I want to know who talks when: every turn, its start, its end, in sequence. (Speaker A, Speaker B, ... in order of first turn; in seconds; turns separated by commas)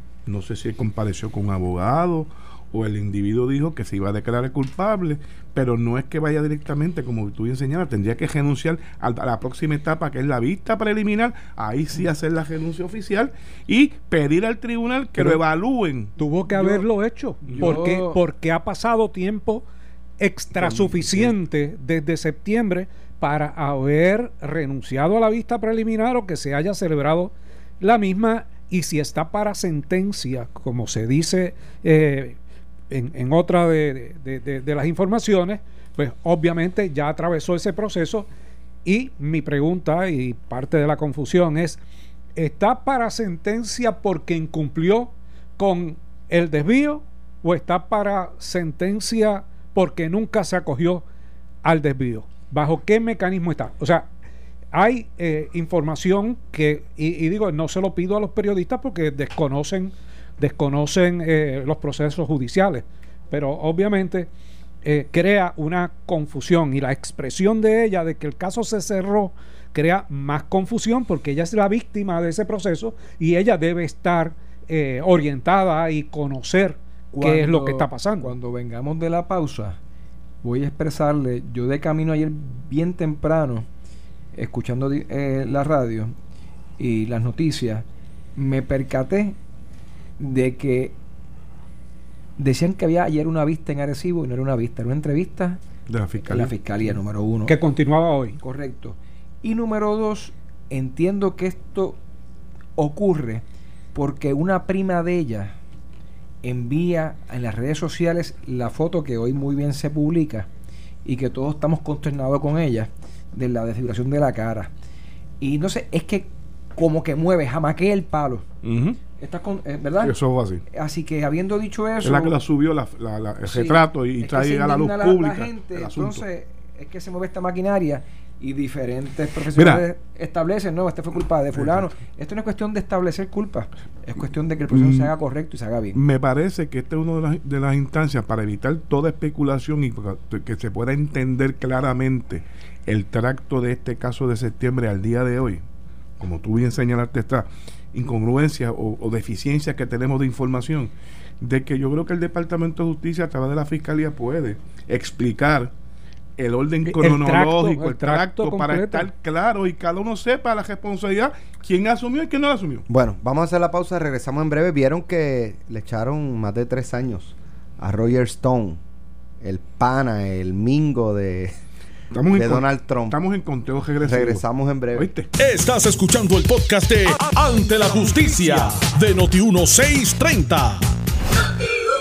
Speaker A: 0.3-16.1, Speaker B: 16.2-19.6, Speaker A: 17.5-17.8, Speaker C: 17.5-18.2, Speaker B: 20.2-32.4, Speaker A: 20.6-21.3, Speaker B: 32.9-38.3, Speaker B: 38.9-41.8, Speaker B: 42.4-51.0, Speaker B: 51.6-54.1, Speaker B: 54.7-64.3, Speaker B: 64.8-78.3, Speaker C: 77.1-79.8, Speaker C: 80.4-83.7, Speaker C: 84.3-86.2, Speaker C: 86.8-89.4, Speaker C: 90.2-91.0, Speaker C: 92.4-95.6, Speaker A: 95.9-96.6, Speaker C: 96.2-97.6, Speaker B: 97.5-98.4, Speaker C: 98.4-102.0, Speaker C: 102.8-105.6, Speaker C: 106.4-110.5, Speaker C: 111.0-114.7, Speaker C: 115.4-118.5, Speaker A: 118.6-119.0, Speaker C: 119.0-120.2, Speaker A: 120.0-120.6, Speaker C: 120.7-122.4, Speaker A: 122.0-126.2, Speaker C: 123.4-136.0, Speaker A: 129.5-129.9, Speaker A: 131.6-131.8, Speaker A: 134.7-135.1, Speaker A: 135.9-145.6, Speaker A: 146.2-155.7, Speaker A: 156.4-162.9, Speaker B: 156.8-159.1, Speaker D: 162.9-168.8, Speaker D: 169.4-171.5, Speaker A: 172.1-174.4, Speaker D: 172.3-173.2, Speaker D: 174.1-175.1, Speaker A: 174.9-175.3, Speaker E: 175.4-180.8